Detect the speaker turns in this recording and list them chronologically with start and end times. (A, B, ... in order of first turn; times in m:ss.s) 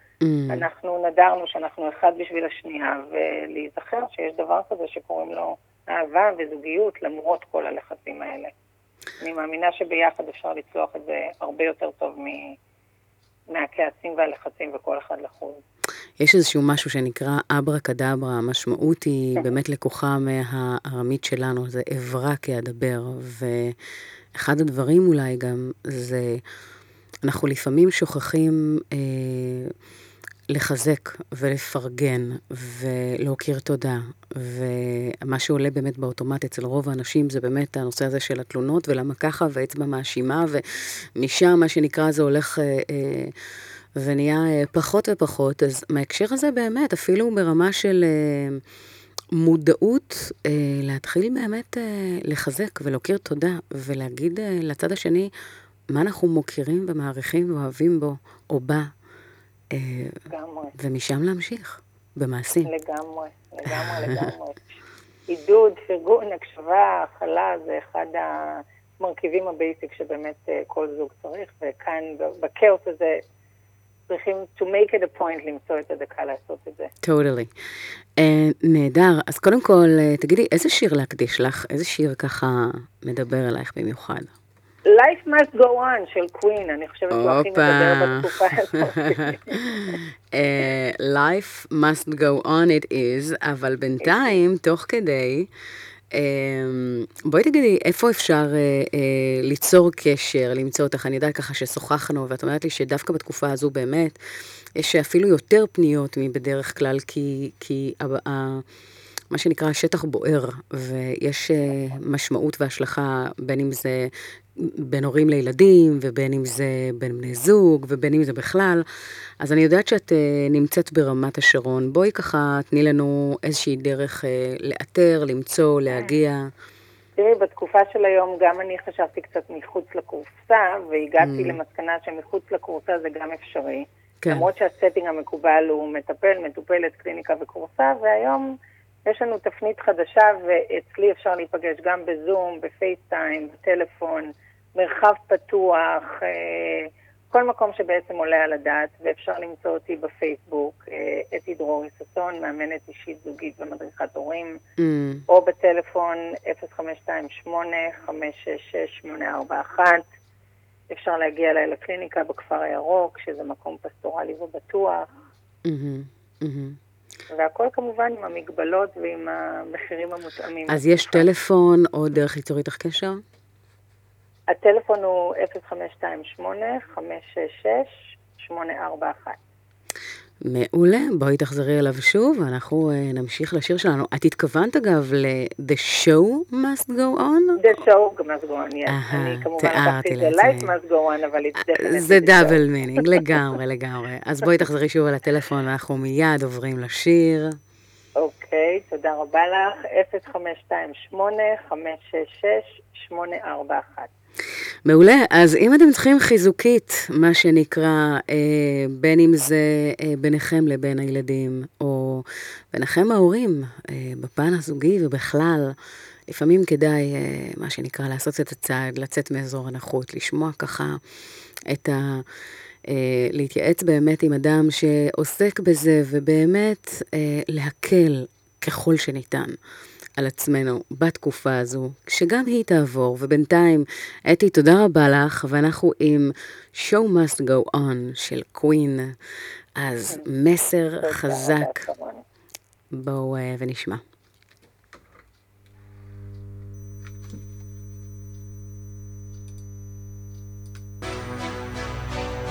0:00.2-0:00.7 A
0:00.5-0:08.5 B
0:09.2-0:12.6 B
0:13.5-0:15.6 B
0:16.2-0:23.8 A
0:24.4-0:26.4 A
0:27.2-0:29.7 A
0:30.5-0:43.3 A
0:44.0-0:48.6 A
0:49.4-0:55.3 A
0:55.9-0:58.9 A
0:59.7-1:00.2 A
1:00.3-1:00.7 B
1:00.8-1:02.7 A
1:02.7-1:04.6 B
1:03.7-1:04.3 A
1:05.3-1:13.2 B
1:14.1-1:16.9 B
1:17.0-1:17.5 A
1:18.2-1:24.3 A
1:24.9-1:29.6 B
1:27.1-1:28.4 A
1:29.0-1:35.5 A
1:34.0-1:34.4 B
1:36.1-1:44.2 A
1:44.8-1:48.6 A
1:49.3-1:58.8 A
1:59.4-2:06.5 A
2:07.2-2:18.5 B
2:11.2-2:11.6 A
2:14.2-2:14.5 A
2:19.1-2:34.6 B
2:34.8-2:35.2 A
2:35.3-2:40.0 B
2:40.9-2:45.1 B
2:45.7-2:46.8 A
2:47.3-2:51.3 B
2:50.7-2:53.2 A
2:54.5-2:59.4 B
3:00.4-3:07.7 A
3:07.6-3:13.4 B
3:08.9-3:10.8 A
3:11.8-3:17.6 A
3:18.2-3:24.1 B
3:24.9-3:35.8 A
3:36.3-3:41.0 A
3:41.7-3:42.3 A
3:42.9-3:49.6 A
3:50.2-3:59.1 A
3:59.8-4:01.8 A
4:01.0-4:02.2 B
4:02.9-4:04.0 A